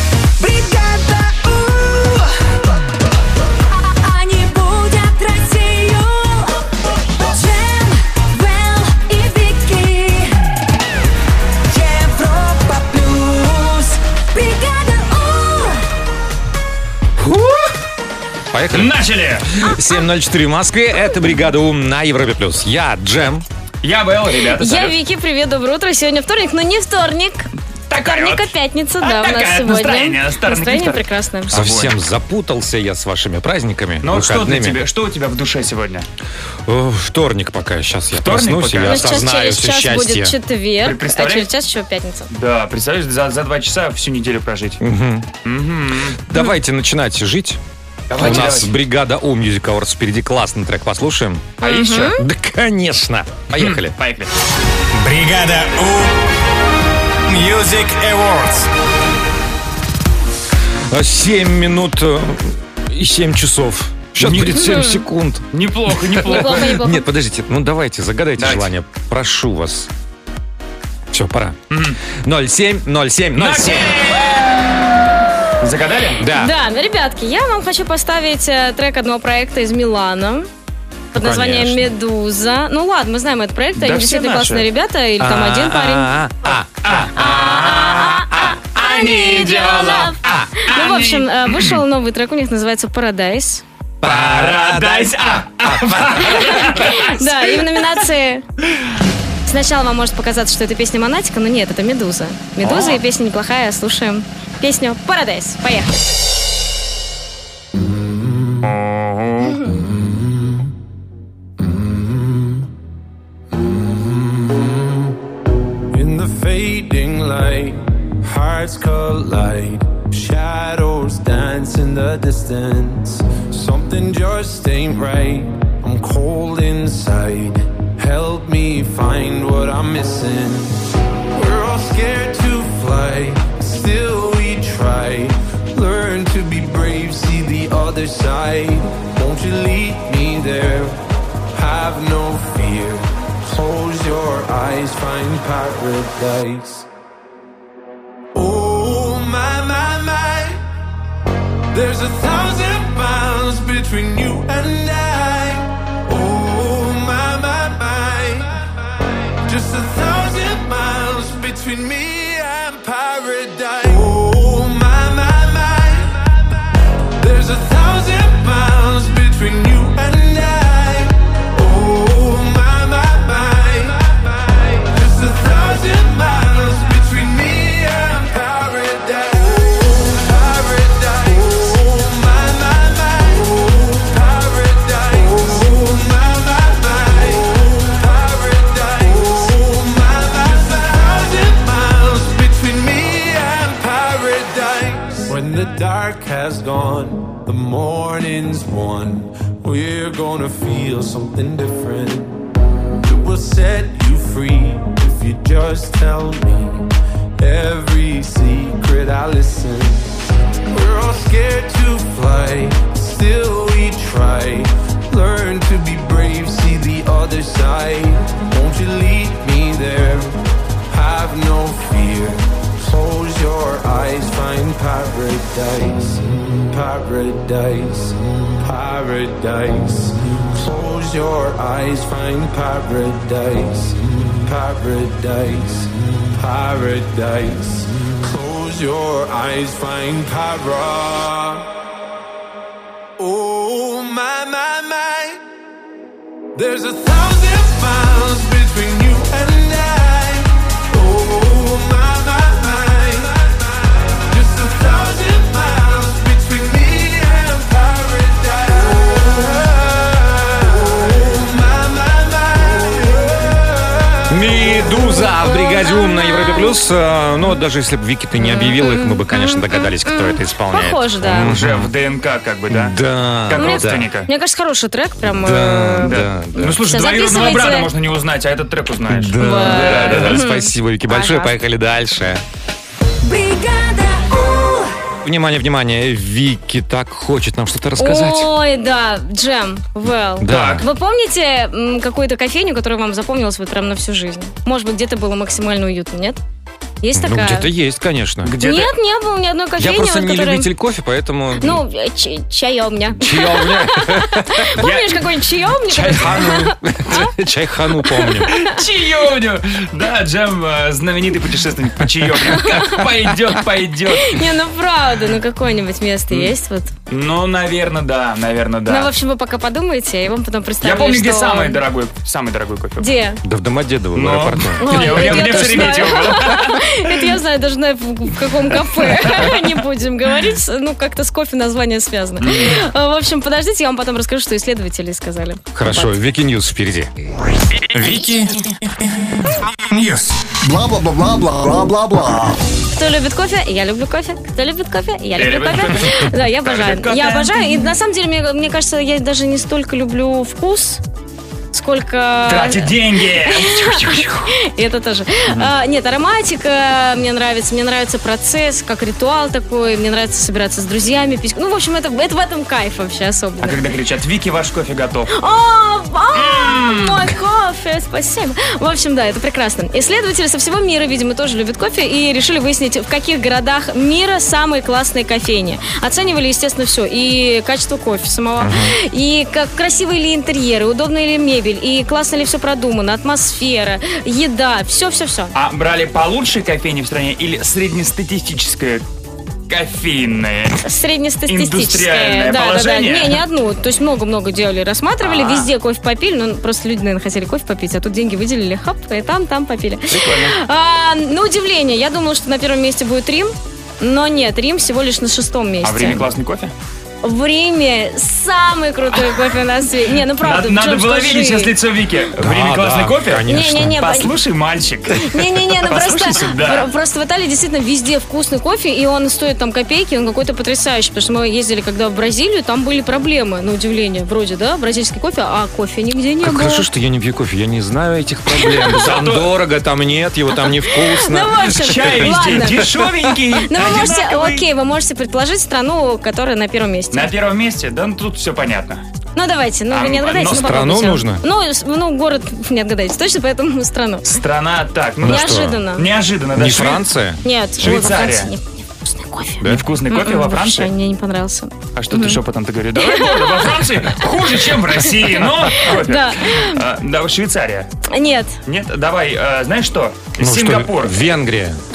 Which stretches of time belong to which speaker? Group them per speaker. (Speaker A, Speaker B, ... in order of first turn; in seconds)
Speaker A: 0.4-2.3, 3.8-10.4, 11.7-15.8, 283.2-284.9
Speaker B: 17.2-17.7, 18.5-18.9, 19.4-23.4, 31.5-34.8, 36.6-40.3, 44.8-45.3, 46.3-47.6, 48.1-51.5, 52.1-53.9, 60.9-69.9, 71.1-71.6, 72.2-74.0, 76.2-76.5, 81.1-81.9, 85.2-90.5, 94.0-96.8, 264.3-271.9, 272.7-274.1, 275.2-276.8, 279.1-282.4, 285.2-288.5, 290.4-290.8, 297.1-298.6, 299.8-301.8, 303.2-304.8, 305.9-308.5, 323.4-326.2, 335.7-337.1, 378.6-378.9, 412.4-414.0, 426.4-433.3, 440.5-441.4, 445.2-445.8, 446.5-448.2, 460.4-461.8
Speaker C: 18.7-19.5, 23.8-24.9, 27.9-32.0, 34.0-36.0, 38.1-39.1, 40.8-41.5, 42.3-44.8, 45.4-46.2, 48.1-48.7, 51.6-52.2, 53.5-54.3, 64.2-64.6, 65.5-66.7, 68.4-68.7, 71.7-72.0, 73.3-74.8, 75.6-76.2, 83.8-84.7, 86.8-87.7, 89.7-91.8, 94.0-97.6, 102.6-103.0, 108.6-109.6, 271.4-273.0, 273.5-274.3, 276.0-280.4, 290.5-290.8, 298.4-298.9, 304.8-305.2, 308.5-314.5, 317.1-319.1, 320.8-323.1, 324.1-326.8, 329.0-329.7, 332.4-332.8, 345.4-347.9, 352.5-354.5, 363.6-365.3, 366.4-367.2, 385.5-389.0, 389.7-390.8, 391.5-393.4, 395.2-395.7, 400.1-400.5, 405.8-406.7, 410.4-416.9, 428.9-429.5, 431.7-434.6, 437.1-439.0, 439.9-440.9, 444.2-447.1, 447.8-448.5, 449.6-450.9, 451.9-457.9, 458.6-461.2
Speaker D: 24.6-27.5, 28.0-31.6, 38.8-42.3, 51.6-52.2, 64.5-65.0, 66.2-67.0, 76.3-80.5, 81.1-86.1, 87.1-93.6, 96.5-98.4, 99.5-106.0, 109.4-109.7, 265.2-266.8, 268.4-271.5, 273.6-277.9, 279.4-281.5, 288.0-296.4, 297.0-297.7, 298.6-300.7, 301.6-307.2, 308.1-308.7, 312.5-313.0, 314.1-316.9, 318.9-321.8, 323.0-323.4, 324.8-336.1, 342.9-351.0, 351.7-363.8, 365.3-385.5, 390.8-406.2, 407.2-411.7, 413.5-414.3, 415.2-426.9, 428.6-429.0, 430.5-432.9, 433.7-437.3, 439.4-444.4, 445.2-446.1, 447.4-452.4, 452.9-454.2, 455.0-456.8, 458.1-458.6
Speaker E: 54.9-56.2, 57.3-58.7, 337.9-340.4
Speaker F: 107.7-108.7, 109.7-110.7, 111.6-112.7, 113.5-115.2, 115.9-130.8, 131.3-146.9, 148.3-150.7, 151.7-166.5, 167.2-202.4, 203.0-241.7, 243.2-245.4, 246.5-264.5
Speaker G: 340.6-342.6